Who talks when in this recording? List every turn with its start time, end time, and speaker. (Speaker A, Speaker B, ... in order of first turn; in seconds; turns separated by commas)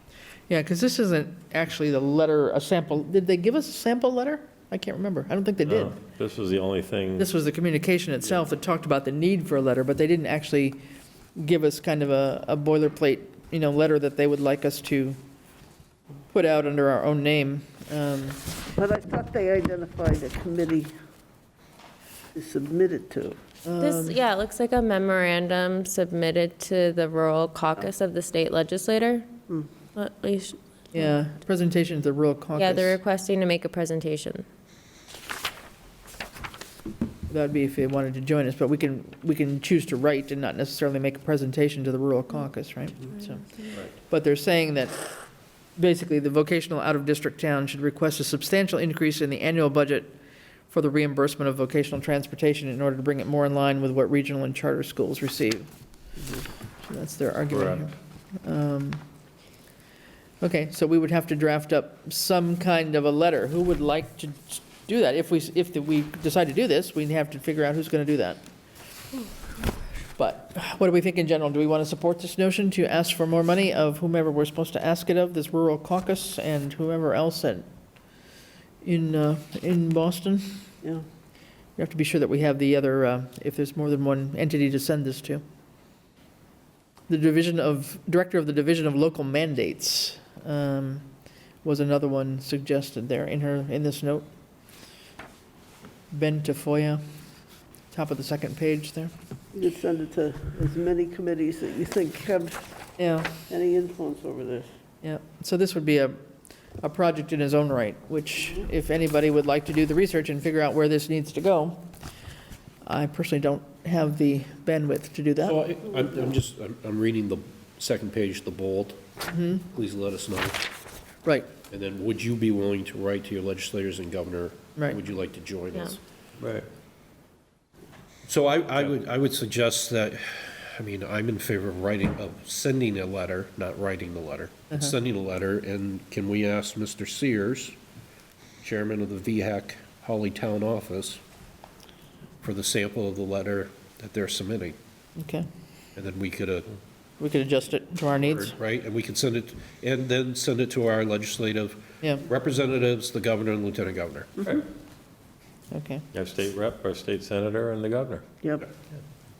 Speaker A: 0.5-6.0, Speaker B: 5.6-7.3, Speaker A: 7.2-10.8, Speaker A: 11.3-15.2, Speaker A: 16.3-18.4, Speaker C: 18.8-20.9, Speaker C: 22.3-23.4, Speaker A: 23.6-24.2, Speaker D: 23.8-29.3, Speaker D: 29.9-30.6, Speaker A: 30.9-33.0, Speaker D: 32.5-34.5, Speaker A: 37.3-45.0, Speaker A: 45.8-50.1, Speaker A: 50.7-55.7, Speaker C: 56.2-56.5, Speaker A: 56.8-59.0, Speaker B: 57.5-57.9, Speaker A: 60.4-68.4, Speaker A: 70.2-77.7, Speaker A: 78.8-80.6, Speaker A: 81.8-85.4, Speaker A: 87.1-91.1, Speaker A: 91.6-94.3, Speaker A: 96.1-97.0, Speaker A: 97.9-99.1, Speaker C: 99.5-102.7, Speaker A: 103.0-103.3, Speaker C: 103.5-104.7, Speaker A: 105.0-106.2, Speaker A: 106.8-111.9, Speaker A: 112.8-115.6, Speaker E: 115.4-119.0, Speaker A: 119.3-119.6, Speaker E: 119.7-120.6, Speaker A: 121.2-121.5, Speaker E: 121.7-126.0, Speaker B: 126.4-126.7, Speaker E: 128.3-137.8, Speaker E: 138.6-141.2, Speaker E: 142.4-144.8, Speaker A: 145.2-145.5, Speaker E: 145.9-146.7, Speaker A: 147.2-148.5, Speaker E: 148.2-154.4, Speaker A: 155.7-156.0, Speaker B: 156.1-158.2